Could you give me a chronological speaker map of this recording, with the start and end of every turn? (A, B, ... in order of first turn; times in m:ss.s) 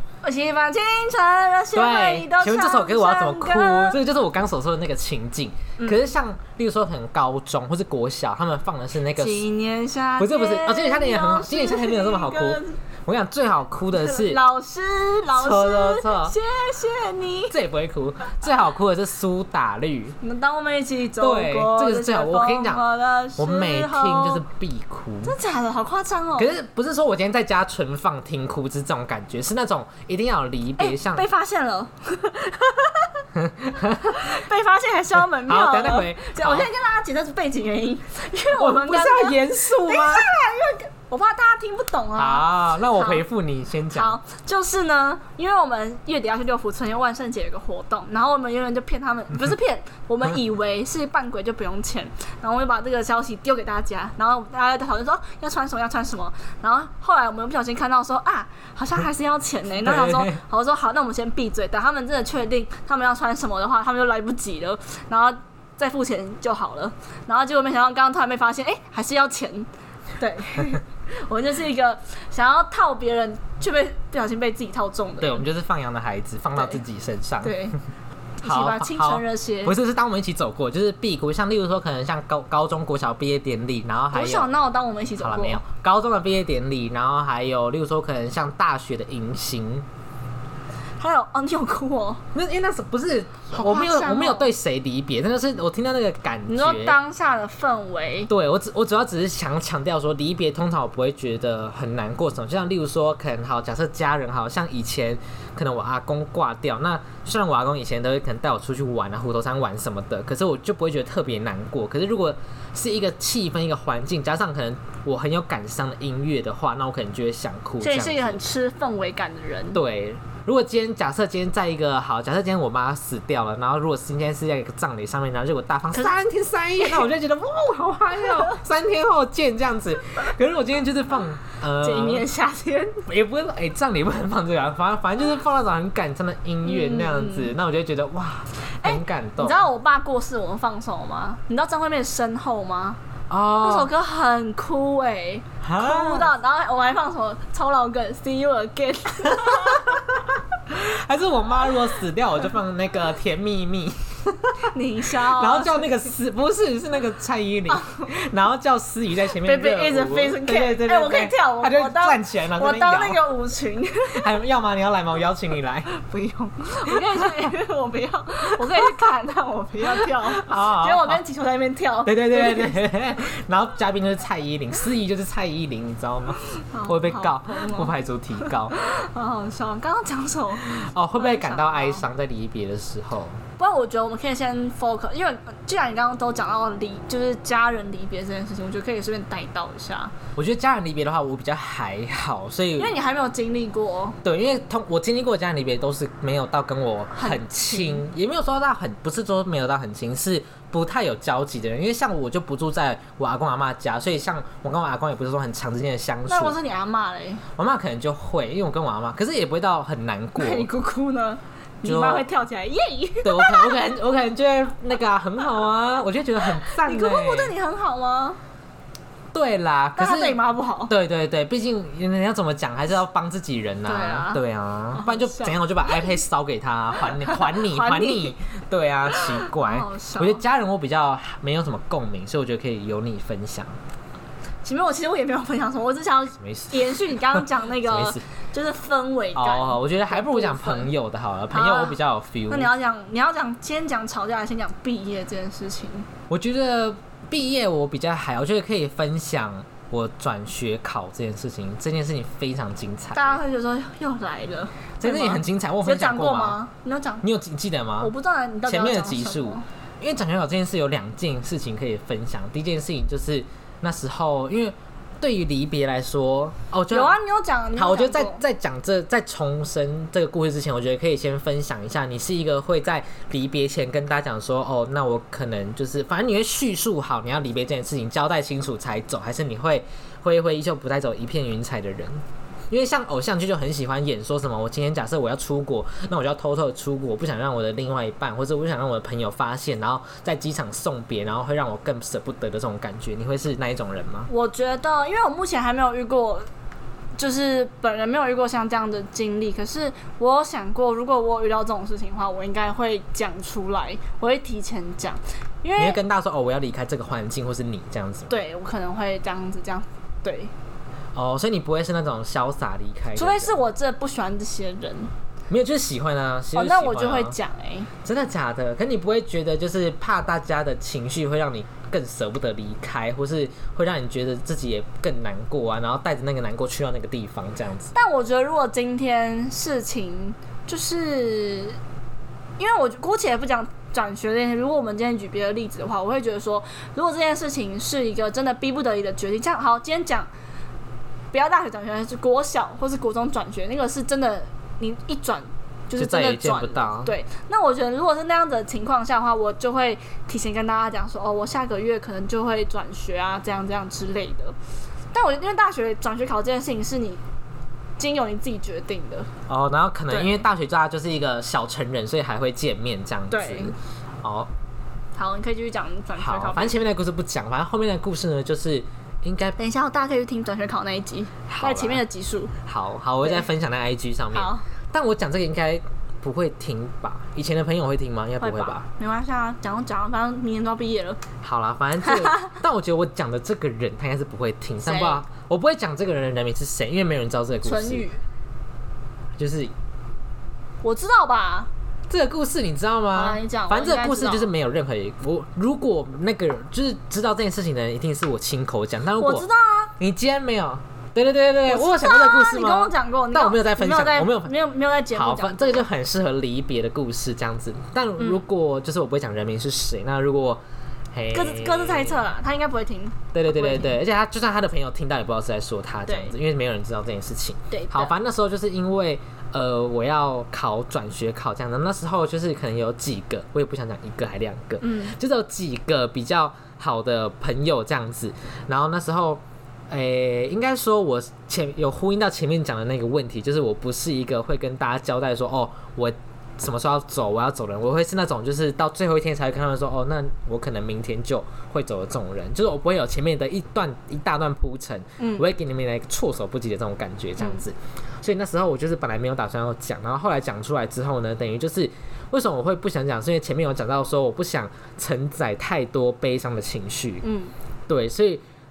0:00.2-0:04.0 A
0:01.8-0:09.4 B
0:09.2-0:12.8 A
0:10.2-0:14.4 B
0:14.0-0:17.6 A
0:15.3-0:16.4 B
0:17.5-0:20.2 B
0:20.2-0:24.4 A
0:21.2-0:22.8 B
0:23.4-0:25.4 B
0:25.2-0:26.5 A
0:26.4-0:31.2 B
0:30.8-0:33.2 A
0:33.4-0:34.4 B
0:34.1-0:43.2 A
0:35.3-0:36.7 B
0:38.5-0:40.3 B
0:42.2-0:44.2 B
0:43.9-1:09.7 A
0:59.8-1:00.4 B
1:10.2-1:15.4 A
1:15.2-1:17.6 B
1:17.4-1:17.8 A
1:18.4-1:19.8 A
1:18.4-1:24.5 B
1:24.1-1:25.6 A
1:25.2-1:29.9 B
1:31.0-1:32.2 A
1:32.3-1:37.0 B
1:33.5-1:34.5 A
1:36.5-1:38.3 A
1:38.3-1:58.4 B
1:57.8-1:59.8 A
1:59.7-2:12.2 B
2:05.9-2:06.2 A
2:11.8-2:13.1 A
2:13.1-2:19.7 B
2:16.6-2:17.5 A
2:18.8-2:23.0 A
2:23.3-2:23.9 B
2:23.6-2:30.0 A
2:25.6-2:26.3 B
2:29.4-2:30.0 B
2:30.7-2:43.3 B
2:34.7-2:35.9 A
2:37.7-2:38.0 A
2:39.4-2:44.3 A
2:44.1-2:45.9 B
2:45.9-2:52.8 A
2:46.9-2:47.3 B
2:49.9-2:51.2 B
2:52.0-2:58.7 B
2:56.7-3:02.0 A
3:00.6-3:03.4 B
3:03.6-3:10.1 A
3:10.4-3:12.9 B
3:12.8-3:14.2 A
3:14.2-3:26.6 B
3:17.2-3:18.0 A
3:26.3-3:27.4 A
3:27.6-3:30.7 B
3:30.4-3:33.8 A
3:31.8-3:32.3 B
3:33.2-3:37.5 B
3:36.4-3:38.4 A
3:39.3-3:53.8 B
3:40.0-3:40.9 A
3:43.9-3:44.4 A
3:44.9-3:45.9 A
3:47.2-3:48.3 A
3:49.1-3:50.4 A
3:54.6-4:00.9 A
3:56.4-3:58.2 B
3:59.4-4:02.7 B
4:01.5-4:02.0 A
4:02.5-4:06.1 A
4:06.3-4:13.4 B
4:13.1-4:17.2 A
4:15.0-4:16.6 B
4:17.2-4:18.1 B
4:18.0-4:19.6 A
4:18.7-4:27.2 B
4:26.9-4:28.4 A
4:27.8-4:54.3 B
4:54.3-4:56.5 A
4:57.2-5:06.0 A
5:05.8-5:08.3 B
5:08.3-5:10.5 A
5:11.2-5:13.6 B
5:13.2-5:15.1 A
5:15.5-5:17.4 B
5:16.6-5:17.9 A
5:18.0-5:27.9 B
5:27.9-5:31.8 A
5:32.6-5:40.3 A
5:41.3-5:54.6 A
5:46.0-5:47.1 B
5:55.1-5:57.2 A
5:58.0-5:59.3 A
5:59.5-6:04.5 B
6:00.1-6:00.4 A
6:03.3-6:03.8 A
6:05.2-6:06.8 A
6:06.2-6:09.6 B
6:09.6-6:12.5 A
6:11.5-6:12.0 B
6:12.6-6:18.9 B
6:14.3-6:14.6 A
6:18.4-6:21.2 A
6:21.4-6:28.1 B
6:22.0-6:22.5 A
6:24.8-6:25.2 A
6:27.6-6:28.2 A
6:29.4-6:29.7 B
6:30.8-6:31.7 A
6:32.1-6:39.5 B
6:33.2-6:34.5 A
6:39.2-6:39.9 A
6:40.0-6:44.5 B
6:41.7-6:45.8 A
6:45.1-6:50.6 B
6:51.1-6:52.2 B
6:51.3-6:54.0 A
6:53.3-7:37.2 B
6:56.1-6:56.3 A
6:57.7-6:58.1 A
7:04.8-7:05.2 A
7:25.2-7:25.4 A
7:37.2-7:37.5 A
7:37.9-7:38.4 B